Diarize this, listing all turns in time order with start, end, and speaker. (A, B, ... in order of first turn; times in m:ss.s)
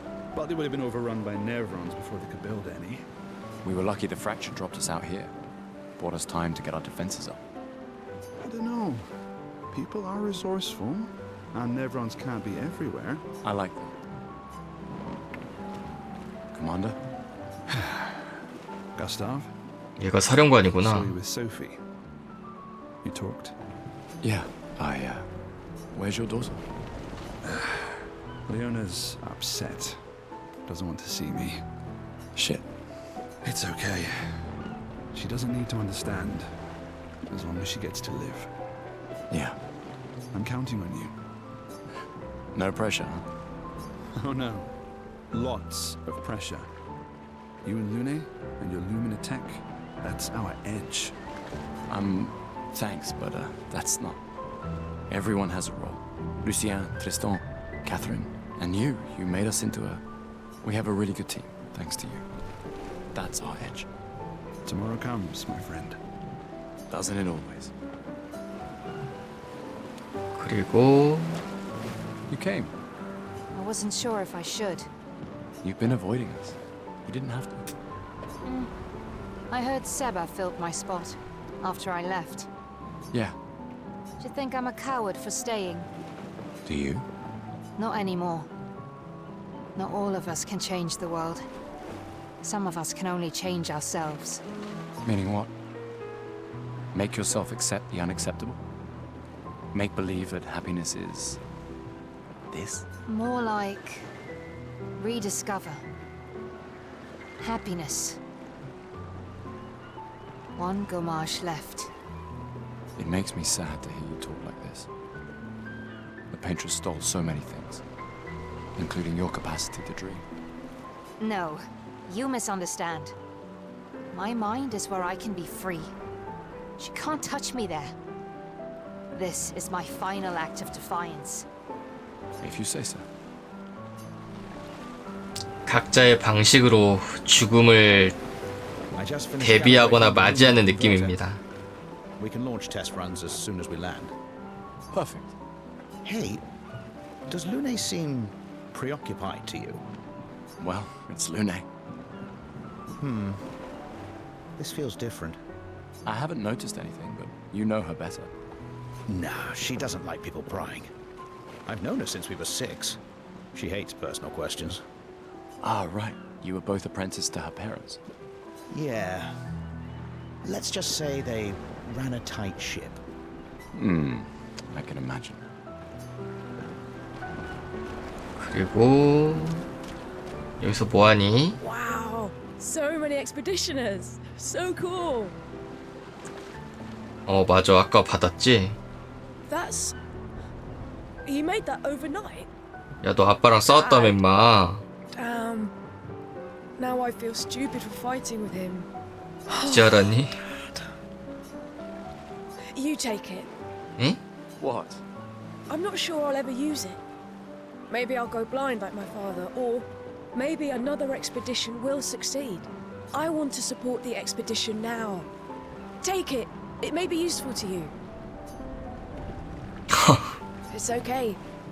0:00.3-0:03.0 A
0:03.6-0:05.3 B
0:06.0-0:07.4 B
0:08.4-0:09.1 A
0:09.7-0:13.2 A
0:13.4-0:14.0 B
0:16.5-0:17.0 B
0:17.7-0:18.3 A
0:19.0-0:19.5 A
0:20.0-0:21.1 C
0:20.8-0:21.8 A
0:23.0-0:23.5 A
0:24.2-0:25.3 B
0:25.9-0:26.6 B
0:27.4-0:30.0 A
0:30.7-0:31.6 A
0:32.4-0:32.7 B
0:33.4-0:34.5 A
0:35.1-0:36.5 A
0:37.3-0:38.5 A
0:39.3-0:39.6 B
0:40.3-0:41.1 A
0:42.5-0:43.2 B
0:44.2-0:44.7 A
0:45.3-0:46.7 A
0:47.6-0:51.2 A
0:51.9-0:54.2 B
0:55.1-1:00.0 B
1:00.6-1:02.3 B
1:03.1-1:03.9 B
1:04.6-1:06.0 A
1:06.9-1:07.7 B
1:10.3-1:11.4 C
1:12.3-1:12.7 B
1:13.5-1:14.9 D
1:15.6-1:17.7 B
1:18.4-1:18.7 D
1:19.5-1:22.5 D
1:24.2-1:25.9 D
1:26.6-1:27.1 B
1:27.8-1:28.5 D
1:29.8-1:31.5 D
1:32.4-1:34.4 D
1:35.0-1:35.5 B
1:36.9-1:38.6 B
1:39.7-1:41.4 B
1:42.5-1:42.9 B
1:43.1-1:44.1 D
1:45.0-1:45.8 D
1:47.4-1:48.2 D
1:50.6-1:51.9 D
1:53.0-1:54.9 B
1:56.3-1:57.8 B
1:58.8-2:00.2 B
2:01.2-2:03.2 D
2:04.1-2:05.9 D
2:06.8-2:07.9 D
2:09.2-2:11.5 D
2:12.4-2:13.1 B
2:15.7-2:18.2 C
2:19.0-2:21.2 E
2:19.4-2:21.4 C
2:22.2-2:24.1 E
2:24.9-2:25.3 B
2:26.0-2:26.4 E
2:27.3-2:29.8 E
2:30.6-2:31.7 B
2:33.0-2:33.5 E
2:34.6-2:35.4 E
2:36.0-2:38.3 B
2:39.1-2:40.9 E
2:41.7-2:43.0 E
2:43.5-2:44.8 E
2:45.6-2:48.0 B
2:48.7-2:49.4 E
2:50.4-2:53.0 E
2:53.7-2:55.5 B
2:58.4-2:59.6 C
3:00.6-3:01.6 C
3:01.6-3:05.4 F
3:07.3-3:08.8 C
3:09.4-3:10.0 F
3:11.3-3:12.5 F
3:13.0-3:14.8 C
3:13.7-3:14.2 F
3:15.2-3:15.7 F
3:16.8-3:18.9 F
3:19.5-3:20.8 F
3:19.6-3:20.3 C
3:22.7-3:23.5 F
3:24.6-3:25.0 B
3:25.7-3:27.0 F
3:27.9-3:35.3 F
3:36.0-3:37.9 F
3:39.9-3:40.4 C
3:40.7-3:41.4 F